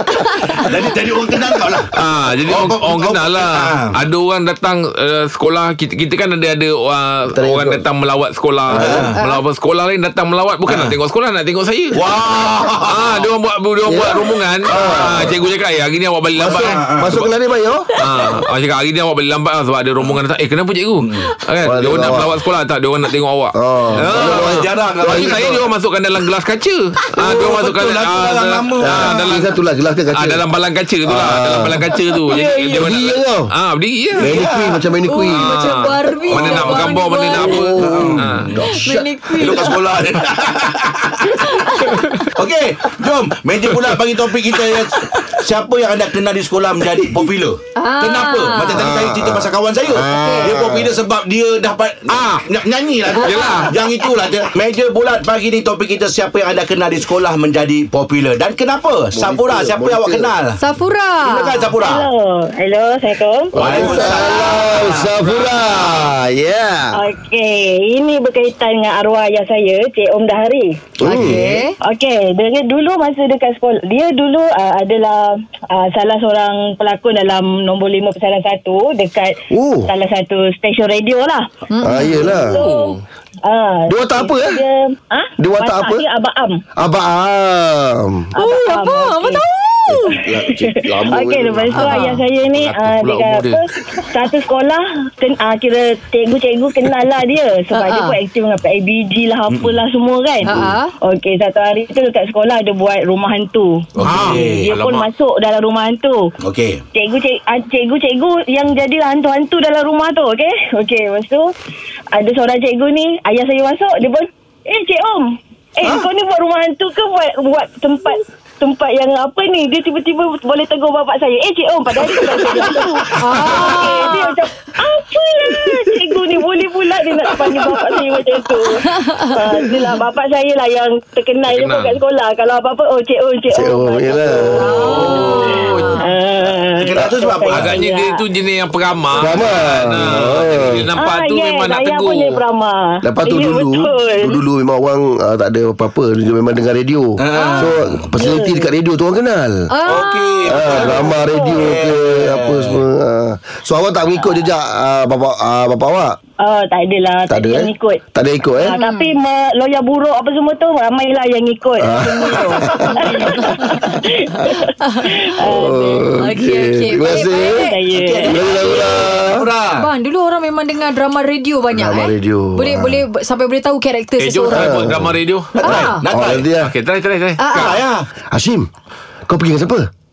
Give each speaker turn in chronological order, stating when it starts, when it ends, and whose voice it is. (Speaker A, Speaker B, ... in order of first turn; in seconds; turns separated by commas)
Speaker A: 0.2-0.7, Speaker B: 0.4-3.9, Speaker C: 1.9-12.0, Speaker D: 7.3-7.8, Speaker D: 8.7-9.1, Speaker B: 8.7-9.2, Speaker A: 9.2-9.4, Speaker B: 10.7-10.9, Speaker B: 11.9-13.2, Speaker C: 12.8-17.3, Speaker D: 13.8-15.4, Speaker B: 14.7-15.3, Speaker B: 16.4-17.2, Speaker D: 16.4-18.2, Speaker C: 17.9-29.5, Speaker B: 21.0-21.3, Speaker D: 21.6-22.3, Speaker D: 23.5-25.3, Speaker B: 23.9-25.6, Speaker B: 27.2-29.4, Speaker D: 28.8-30.4, Speaker C: 30.1-34.3, Speaker D: 31.0-33.5, Speaker A: 32.3-32.9, Speaker B: 34.1-34.8, Speaker D: 34.2-35.7, Speaker A: 35.0-37.8, Speaker C: 35.3-38.5, Speaker B: 36.3-37.0, Speaker D: 37.4-39.1, Speaker B: 37.8-41.7, Speaker A: 38.6-39.8, Speaker A: 41.2-42.3, Speaker B: 42.3-60.6, Speaker A: 47.8-48.9, Speaker D: 48.7-51.0, Speaker A: 50.1-50.6, Speaker C: 52.1-52.4, Speaker C: 53.1-53.8, Speaker A: 53.2-54.0, Speaker D: 59.1-60.3, Speaker A: 60.6-61.7, Speaker B: 61.2-62.0, Speaker E: 61.8-64.8, Speaker D: 63.5-67.0, Speaker B: 63.5-66.0, Speaker E: 66.9-70.8, Speaker D: 71.0-71.5, Speaker A: 71.0-71.8, Speaker B: 71.1-71.6, Speaker E: 71.8-86.6, Speaker D: 79.5-79.9, Speaker A: 81.7-82.3, Speaker D: 81.8-82.6, Speaker C: 82.3-83.0, Speaker D: 83.9-84.6, Speaker D: 85.4-86.0, Speaker D: 86.8-88.3, Speaker E: 88.3-89.4, Speaker A: 88.4-90.2, Speaker D: 89.9-92.0, Speaker E: 90.0-106.3, Speaker A: 91.7-92.2, Speaker C: 92.5-93.6, Speaker A: 97.7-98.2, Speaker B: 99.5-99.8, Speaker A: 100.4-100.9, Speaker B: 104.0-104.7, Speaker C: 104.0-105.1, Speaker B: 106.4-106.8, Speaker E: 106.9-111.5, Speaker E: 112.1-138.2, Speaker B: 122.4-122.7, Speaker A: 123.2-124.4, Speaker A: 128.9-129.3, Speaker C: 131.5-132.0, Speaker D: 133.5-134.8, Speaker A: 134.7-136.1, Speaker C: 134.8-136.0, Speaker B: 136.8-137.8, Speaker C: 137.5-142.4, Speaker D: 139.1-140.8, Speaker E: 140.9-144.4, Speaker D: 143.0-149.7, Speaker B: 147.2-148.0, Speaker A: 147.3-147.7, Speaker E: 148.2-148.7, Speaker A: 149.7-150.4, Speaker B: 149.8-152.8, Speaker D: 150.5-156.2, Speaker E: 150.6-151.7, Speaker E: 156.4-158.0, Speaker D: 157.3-158.8, Speaker E: 158.6-166.1, Speaker A: 158.8-159.1, Speaker D: 161.8-163.3, Speaker A: 162.2-163.9, Speaker A: 164.8-165.1, Speaker D: 165.4-167.7, Speaker A: 166.2-167.8, Speaker E: 167.1-168.4, Speaker B: 167.9-169.9, Speaker D: 168.2-169.4, Speaker A: 169.8-174.9, Speaker D: 171.7-173.0, Speaker C: 174.2-175.5, Speaker D: 174.5-176.7, Speaker B: 175.5-176.5, Speaker A: 175.6-176.0, Speaker C: 176.6-177.8, Speaker A: 177.4-177.8, Speaker B: 177.5-178.1, Speaker D: 178.3-178.7, Speaker D: 179.3-179.9